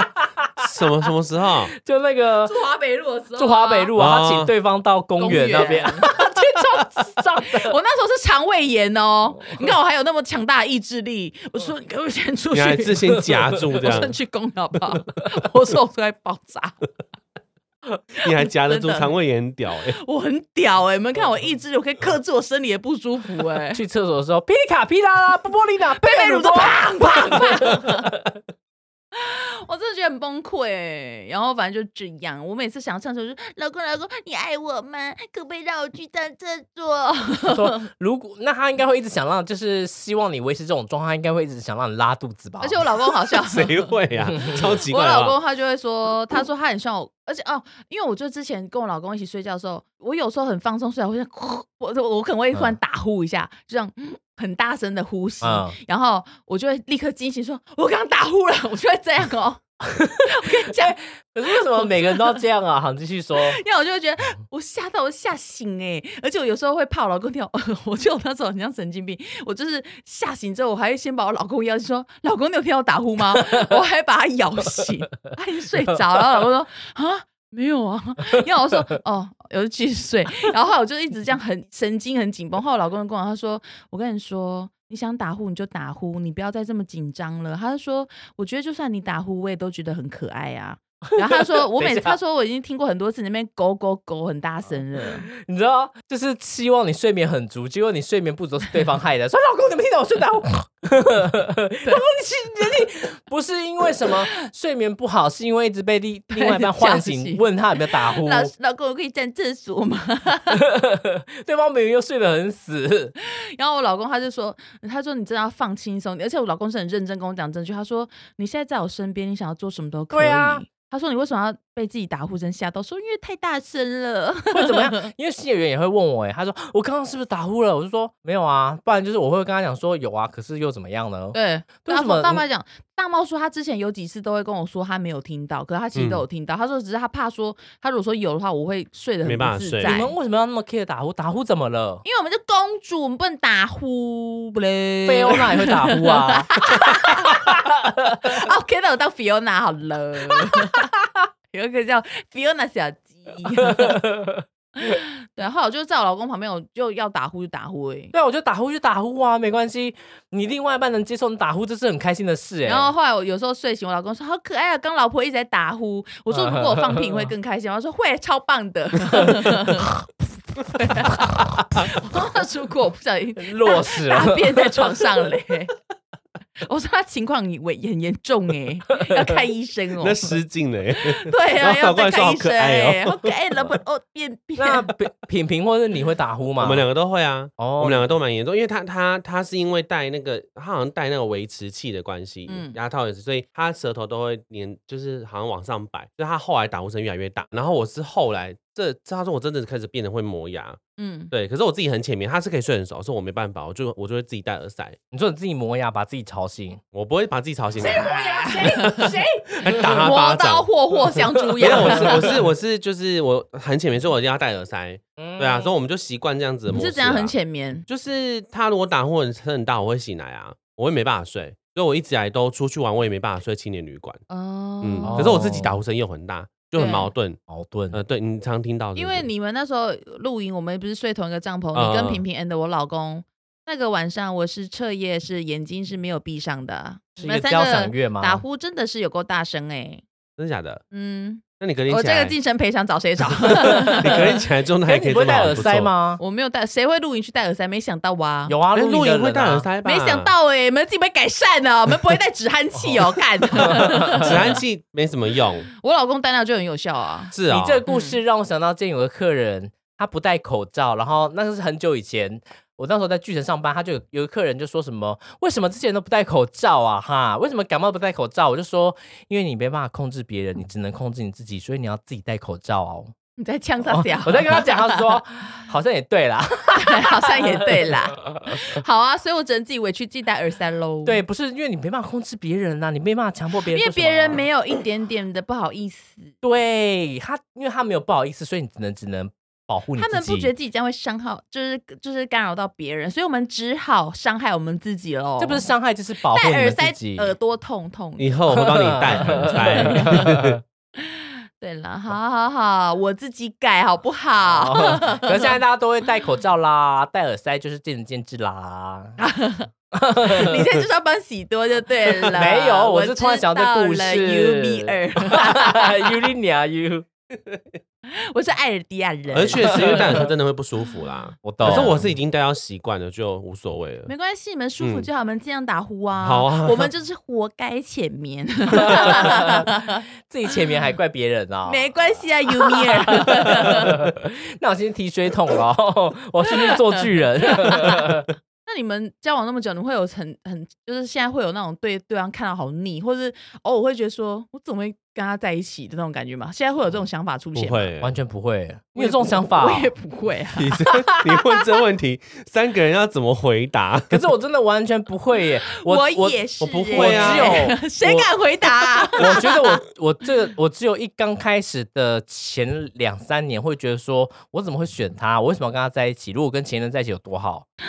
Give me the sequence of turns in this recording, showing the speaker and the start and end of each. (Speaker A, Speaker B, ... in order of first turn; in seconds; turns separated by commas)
Speaker A: 0.6-1.7, Speaker B: 1.7-2.5, Speaker C: 2.5-3.9, Speaker B: 3.4-7.7, Speaker A: 4.0-4.5, Speaker C: 5.2-16.8, Speaker B: 9.4-9.7, Speaker A: 12.5-14.1, Speaker C: 18.2-19.1, Speaker A: 18.2-20.0, Speaker C: 20.0-23.8, Speaker B: 23.7-28.3, Speaker C: 26.0-28.1, Speaker C: 29.1-37.8, Speaker B: 37.5-42.8, Speaker C: 42.6-43.9, Speaker A: 43.4-45.4, Speaker B: 44.2-44.6, Speaker C: 44.4-59.6, Speaker B: 55.4-55.8, Speaker B: 60.0-63.6, Speaker C: 60.2-61.0, Speaker C: 61.5-62.4, Speaker C: 63.4-95.3, Speaker B: 91.2-92.2, Speaker B: 95.3-108.5, Speaker C: 106.3-110.6, Speaker B: 110.5-113.1, Speaker C: 113.5-125.0, Speaker B: 120.1-120.6, Speaker B: 124.5-132.4, Speaker C: 131.3-140.1, Speaker A: 135.9-136.2, Speaker A: 139.2-139.9, Speaker B: 139.8-142.0, Speaker C: 142.0-147.5, Speaker B: 145.1-146.5, Speaker B: 147.5-148.2, Speaker C: 148.0-150.9, Speaker C: 151.5-154.0, Speaker B: 153.6-154.4, Speaker C: 154.8-158.1, Speaker B: 158.1-162.9, Speaker C: 162.7-169.9, Speaker B: 166.3-167.3, Speaker B: 169.1-169.5, Speaker C: 170.6-175.7, Speaker B: 171.0-171.7, Speaker B: 173.4-175.0, Speaker C: 176.6-180.4, Speaker A: 180.0-183.7, Speaker C: 181.0-184.9, Speaker B: 184.6-186.8, Speaker A: 186.6-200.8, Speaker B: 187.6-188.1, Speaker C: 192.5-192.8, Speaker C: 201.0-201.3, Speaker A: 201.3-205.0, Speaker B: 205.1-206.8, Speaker A: 206.9-208.1, Speaker B: 207.8-210.1, Speaker C: 208.0-209.1, Speaker A: 209.6-210.7, Speaker C: 210.0-212.3, Speaker B: 211.6-212.3, Speaker A: 211.6-217.3, Speaker B: 215.2-215.7, Speaker C: 216.7-217.8, Speaker A: 217.9-224.2, Speaker C: 224.3-225.4, Speaker A: 224.8-227.4, Speaker B: 225.1-225.8, Speaker C: 226.8-227.1, Speaker B: 227.5-228.0, Speaker A: 227.9-229.3, Speaker C: 228.9-240.0, Speaker A: 231.7-232.2, Speaker B: 237.2-238.4, Speaker A: 240.4-240.8, Speaker C: 240.9-244.2, Speaker A: 241.6-242.3, Speaker B: 243.6-244.2, Speaker A: 243.8-245.9, Speaker B: 244.8-246.2, Speaker C: 246.2-248.6, Speaker B: 248.5-249.7, Speaker A: 248.7-250.3, Speaker C: 249.8-254.5, Speaker B: 253.6-254.3, Speaker A: 253.6-255.7, Speaker C: 255.8-257.3, Speaker A: 257.3-257.8, Speaker B: 257.5-273.1, Speaker C: 257.9-258.2, Speaker C: 273.4-275.2, Speaker B: 273.9-278.8, Speaker C: 276.8-281.2, Speaker B: 281.0-284.4, Speaker C: 283.7-286.3, Speaker B: 286.4-290.5, Speaker C: 289.9-295.7, Speaker B: 295.4-297.3, Speaker C: 296.2-298.4, Speaker A: 298.2-300.6, Speaker B: 298.5-300.6, Speaker C: 299.1-300.3, Speaker C: 301.0-305.6, Speaker B: 304.4-309.2, Speaker C: 309.2-309.7, Speaker B: 309.9-310.6, Speaker C: 310.2-316.2, Speaker B: 312.2-317.1, Speaker C: 318.1-320.0, Speaker A: 319.3-324.1, Speaker B: 319.8-320.1, Speaker B: 321.4-322.0, Speaker C: 321.6-322.0, Speaker C: 324.1-330.0, Speaker A: 324.8-325.1, Speaker A: 326.2-326.9, Speaker B: 328.8-329.7, Speaker B: 330.3-331.9, Speaker C: 331.7-333.9, Speaker B: 332.7-338.2, Speaker C: 336.5-338.1, Speaker C: 338.6-347.9, Speaker A: 347.6-348.2, Speaker B: 348.0-349.9, Speaker C: 348.9-350.7, Speaker A: 350.5-354.2, Speaker B: 354.1-357.8, Speaker C: 355.7-359.8, Speaker A: 356.6-359.2, Speaker B: 359.2-367.7